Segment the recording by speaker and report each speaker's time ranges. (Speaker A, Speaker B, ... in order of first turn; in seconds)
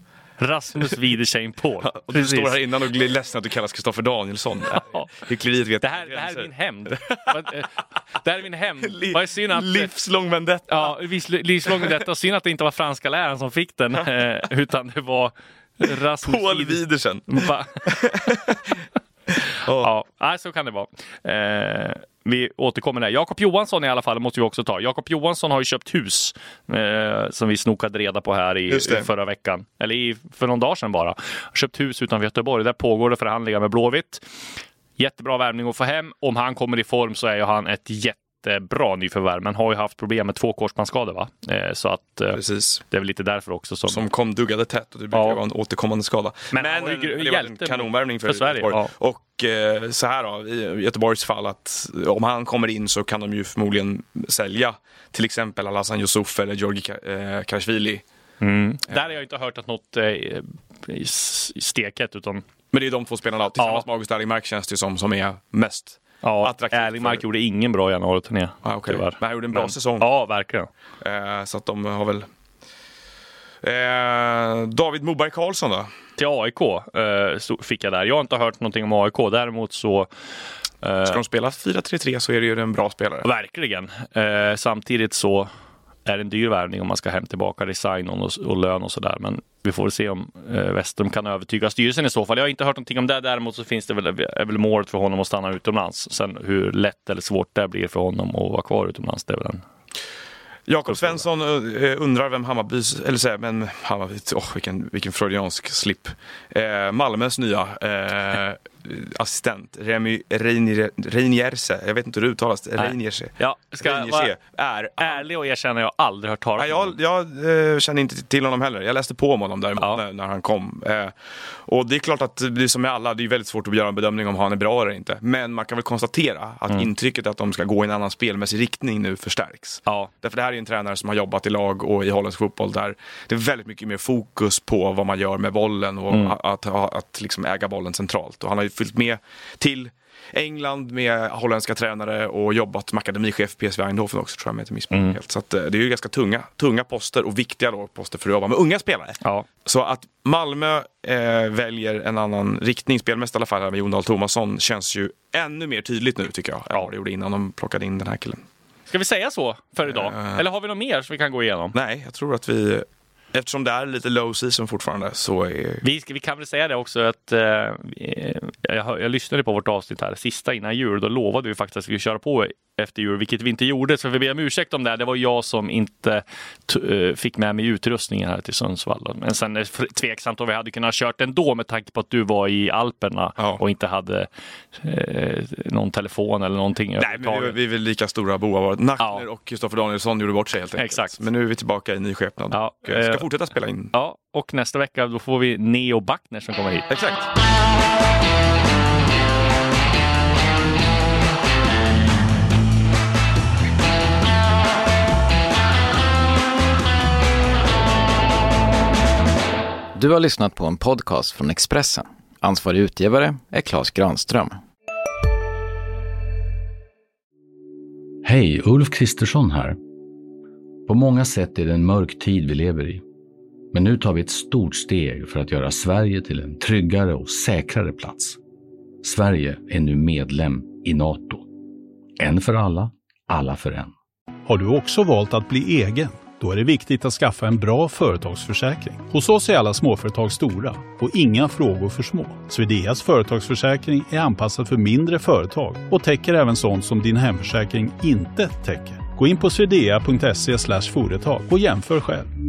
Speaker A: 0.4-2.6, 4.7-5.1, 5.8-9.9, 10.7-18.4, 19.8-34.2, 35.0-44.0, 45.1-45.4, 46.5-48.9, 58.4-62.4, 63.6-63.9, 66.2-70.7, 76.2-80.1, 80.8-81.2, 83.2-85.5, 86.1-99.6, 100.9-101.2, 112.8-114.3, 115.0-117.0, 136.1-136.4, 144.9-145.2, 158.9-161.8, 165.8-187.6, 190.8-191.2, 192.5-193.3, 193.9-196.9
Speaker B: 1.9-7.3, 8.8-10.9, 16.2-18.8, 19.4-19.9, 28.7-29.1, 42.3-42.8, 43.9-58.0, 62.7-67.2, 68.6-70.1, 71.0-72.3, 73.6-75.9, 81.0-83.3, 100.7-115.2, 116.6-121.1, 121.7-158.4, 159.9-160.4, 161.7-165.8, 187.0-193.9, 196.9-197.3
Speaker C: 209.9-214.6
Speaker D: 218.2-219.8, 220.9-223.0, 223.7-228.4, 229.0-231.5, 232.2-233.9
Speaker E: 234.4-252.3